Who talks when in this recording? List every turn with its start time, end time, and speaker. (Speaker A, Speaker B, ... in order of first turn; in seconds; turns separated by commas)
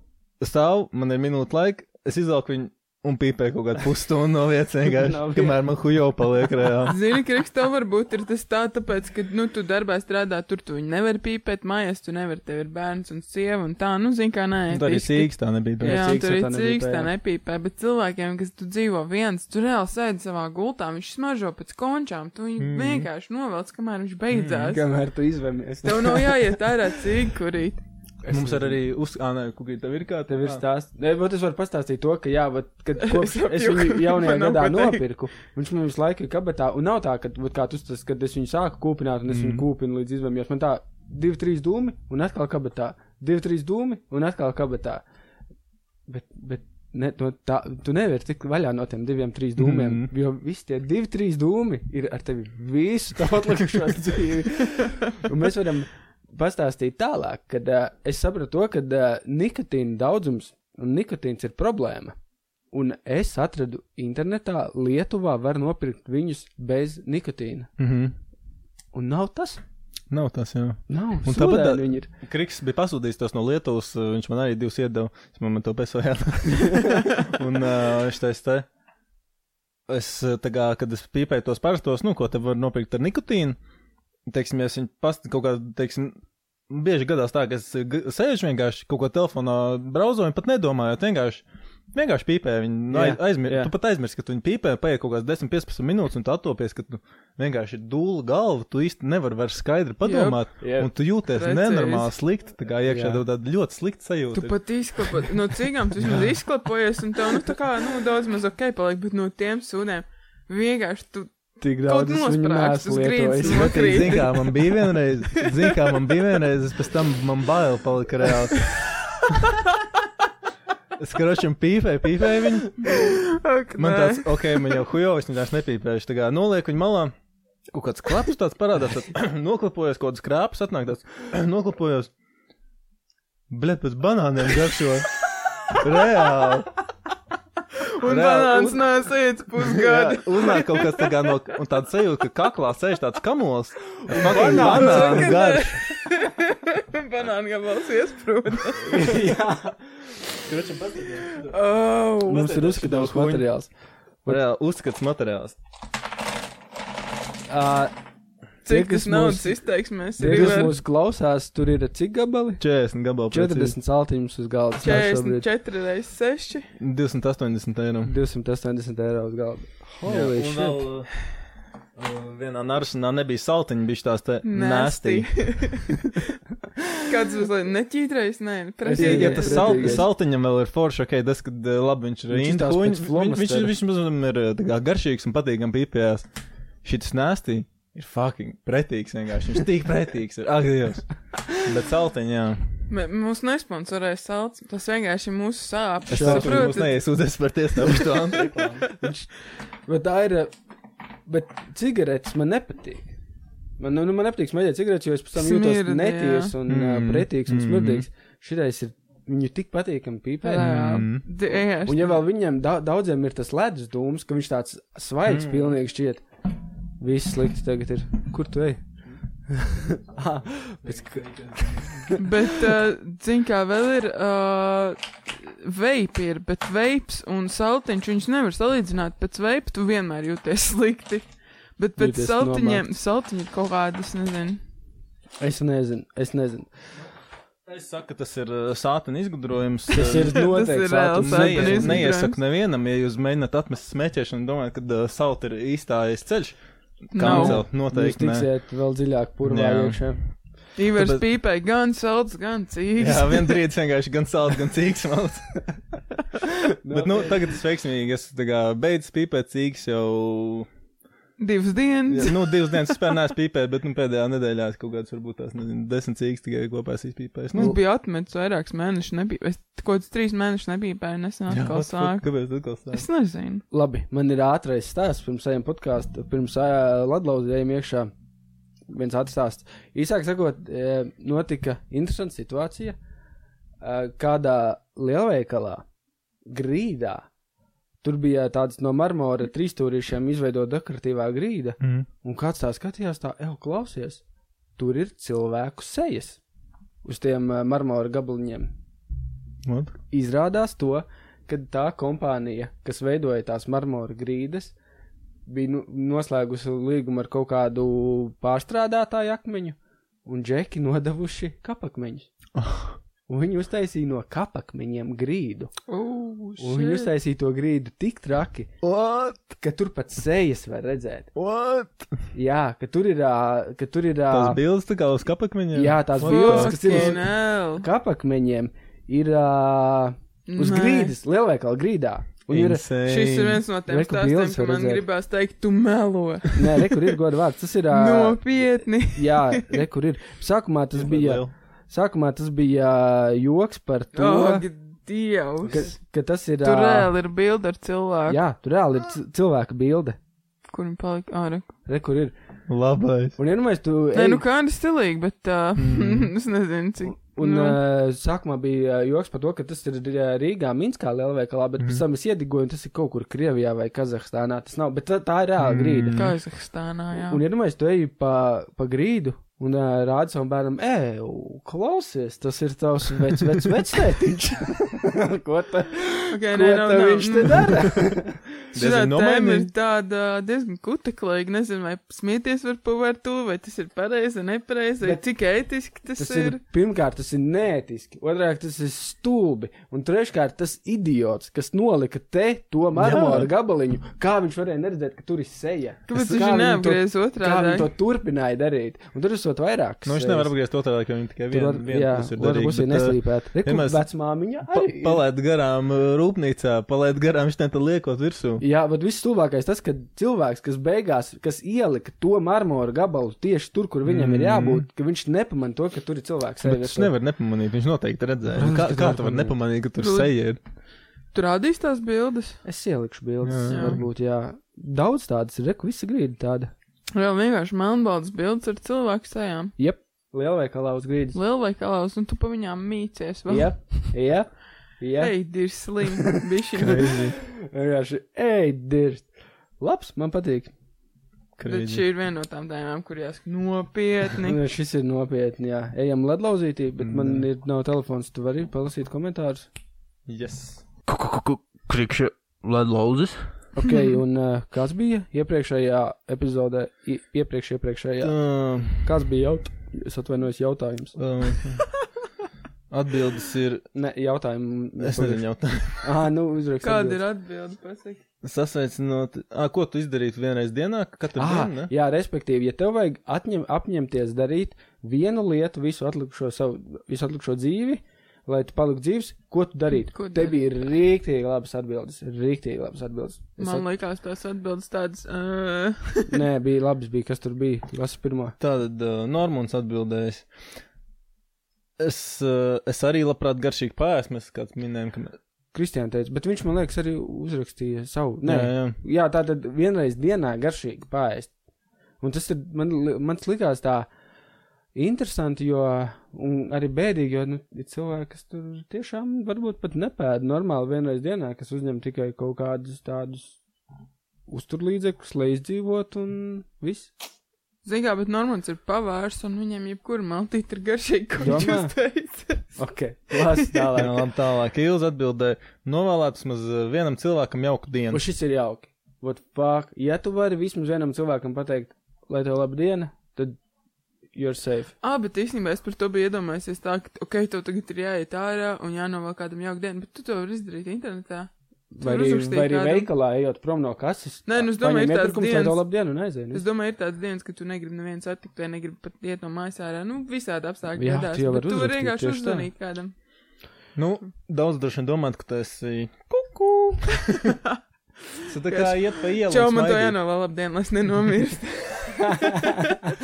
Speaker A: 0.4-7.0, Speaker B: 5.0-5.6, Speaker C: 6.9-24.9, Speaker A: 14.7-16.0, Speaker B: 15.8-17.1, Speaker A: 22.6-23.1, Speaker A: 24.3-24.7, Speaker B: 24.6-26.4, Speaker C: 25.8-27.8, Speaker B: 28.2-28.8, Speaker A: 28.3-30.6, Speaker B: 30.3-45.0, Speaker C: 33.0-35.0, Speaker A: 39.3-39.6, Speaker B: 46.1-62.1, Speaker A: 49.6-50.1, Speaker B: 62.7-67.7, Speaker A: 67.8-68.1, Speaker B: 68.9-69.6, Speaker A: 70.1-78.7, Speaker B: 70.9-72.1, Speaker A: 79.9-83.6, Speaker A: 84.3-86.2, Speaker A: 86.7-104.6, Speaker B: 92.9-93.7, Speaker C: 100.0-100.6, Speaker B: 100.6-100.9, Speaker C: 101.2-102.1, Speaker B: 102.8-103.2, Speaker C: 104.3-114.6, Speaker A: 106.0-106.3, Speaker B: 111.6-114.2, Speaker A: 113.5-118.7, Speaker A: 121.0-123.1, Speaker C: 122.8-124.7, Speaker A: 123.8-127.1, Speaker A: 127.7-132.1, Speaker A: 133.5-135.1, Speaker A: 135.7-136.7, Speaker C: 137.9-141.1, Speaker A: 138.0-138.8, Speaker A: 139.6-145.8, Speaker B: 144.1-145.4, Speaker C: 144.2-149.1, Speaker B: 148.8-149.8, Speaker A: 150.4-151.5, Speaker C: 151.5-152.4, Speaker B: 152.2-153.7, Speaker A: 152.3-153.5, Speaker A: 154.3-155.6, Speaker B: 157.5-157.9, Speaker C: 158.6-160.8, Speaker B: 158.7-162.6, Speaker A: 160.2-160.7, Speaker A: 162.6-163.7, Speaker B: 163.3-165.4, Speaker C: 164.8-166.7, Speaker A: 166.8-168.1, Speaker B: 168.0-170.8, Speaker A: 170.0-171.2, Speaker A: 171.9-175.6, Speaker C: 174.4-176.3, Speaker C: 177.0-180.0, Speaker B: 178.8-180.1, Speaker A: 178.9-186.3, Speaker B: 182.3-183.7, Speaker A: 186.8-192.7, Speaker C: 192.9-197.0, Speaker B: 196.1-196.8, Speaker A: 196.1-198.8, Speaker B: 198.4-199.3, Speaker B: 199.8-200.5, Speaker B: 201.2-203.1, Speaker B: 203.8-210.8, Speaker C: 205.3-206.5, Speaker A: 206.7-208.1, Speaker C: 210.4-212.2, Speaker A: 210.6-211.2, Speaker B: 211.8-216.2, Speaker A: 215.3-215.7, Speaker B: 217.0-218.8, Speaker B: 219.5-222.5, Speaker A: 220.8-222.1, Speaker C: 222.2-234.6, Speaker B: 232.0-232.8, Speaker B: 235.4-236.7, Speaker A: 237.7-240.4, Speaker B: 239.9-242.1, Speaker C: 240.0-242.4, Speaker A: 241.2-248.5, Speaker C: 247.1-247.6, Speaker B: 247.1-250.2, Speaker A: 249.4-250.3, Speaker C: 250.8-253.6, Speaker A: 250.9-251.2, Speaker A: 253.0-255.6, Speaker B: 256.8-257.4, Speaker A: 256.9-260.7, Speaker C: 261.4-262.9, Speaker A: 262.1-267.8, Speaker C: 267.5-272.3, Speaker A: 271.5-273.0, Speaker C: 272.9-273.6, Speaker B: 273.7-278.1, Speaker B: 278.9-283.0, Speaker B: 283.8-285.8, Speaker B: 286.4-287.3, Speaker B: 288.0-294.2, Speaker A: 291.8-292.1, Speaker B: 294.8-296.4, Speaker B: 297.0-298.7, Speaker A: 299.6-299.9, Speaker B: 300.1-304.7, Speaker B: 305.4-312.3, Speaker A: 312.6-313.0, Speaker B: 313.3-315.7, Speaker C: 315.9-317.1, Speaker B: 316.6-318.8, Speaker A: 318.8-319.5, Speaker B: 319.6-321.3, Speaker A: 321.4-322.2, Speaker B: 322.3-324.6, Speaker A: 324.3-327.1, Speaker B: 325.7-332.9, Speaker C: 326.2-327.9, Speaker C: 330.5-331.1, Speaker A: 332.5-333.6, Speaker C: 333.0-337.0, Speaker B: 333.9-335.0, Speaker B: 336.6-338.5, Speaker C: 337.9-339.8, Speaker B: 339.1-344.6, Speaker A: 340.9-341.5, Speaker C: 344.1-345.8, Speaker B: 345.6-347.1, Speaker C: 346.6-348.4, Speaker B: 348.3-350.2, Speaker C: 350.7-351.7, Speaker B: 351.9-352.3, Speaker A: 352.7-353.4, Speaker B: 353.4-354.4, Speaker C: 354.1-357.8, Speaker A: 355.8-356.3, Speaker B: 357.0-366.1, Speaker A: 365.6-366.3, Speaker C: 366.1-367.4, Speaker B: 367.3-378.4, Speaker C: 376.3-377.9, Speaker C: 378.7-386.6, Speaker A: 378.7-379.7, Speaker B: 386.1-400.5, Speaker A: 392.9-393.5, Speaker C: 396.1-397.9, Speaker A: 396.1-396.4, Speaker A: 400.1-404.0, Speaker B: 401.5-405.2, Speaker A: 404.7-408.6, Speaker B: 408.6-417.1, Speaker A: 414.0-414.9, Speaker A: 416.6-420.6, Speaker B: 418.5-419.6, Speaker C: 420.0-420.3, Speaker C: 421.3-422.6, Speaker B: 422.6-426.7, Speaker A: 423.4-424.0, Speaker C: 423.7-424.0, Speaker C: 427.1-429.7, Speaker B: 429.8-431.4, Speaker C: 431.3-434.1, Speaker B: 433.5-435.4, Speaker C: 435.2-437.1, Speaker A: 436.8-437.3, Speaker B: 436.8-440.7, Speaker A: 441.6-442.0, Speaker C: 441.7-444.6, Speaker B: 444.4-449.7, Speaker A: 447.0-447.4, Speaker A: 450.3-453.4, Speaker B: 453.7-461.2, Speaker C: 453.8-454.1, Speaker A: 458.2-459.1, Speaker A: 461.2-461.8, Speaker A: 462.9-463.8, Speaker B: 463.9-465.4, Speaker A: 465.0-466.1, Speaker B: 466.0-467.2, Speaker C: 466.8-468.2, Speaker A: 468.4-471.9, Speaker B: 471.4-483.8, Speaker C: 480.1-480.7, Speaker C: 483.6-486.4, Speaker B: 486.3-488.6, Speaker A: 488.6-490.8, Speaker A: 492.0-495.4, Speaker B: 495.7-501.5, Speaker A: 498.4-499.0, Speaker B: 502.2-504.1, Speaker B: 504.9-513.6, Speaker B: 514.5-517.1, Speaker C: 517.8-522.8, Speaker B: 521.4-522.0, Speaker B: 522.8-524.2, Speaker C: 523.3-523.9, Speaker A: 523.9-528.2, Speaker B: 528.1-533.5, Speaker B: 534.3-534.9, Speaker C: 535.0-543.1, Speaker B: 541.9-546.6, Speaker C: 544.5-553.1, Speaker B: 550.9-552.7, Speaker A: 554.0-557.5, Speaker A: 558.4-560.2, Speaker C: 558.7-563.1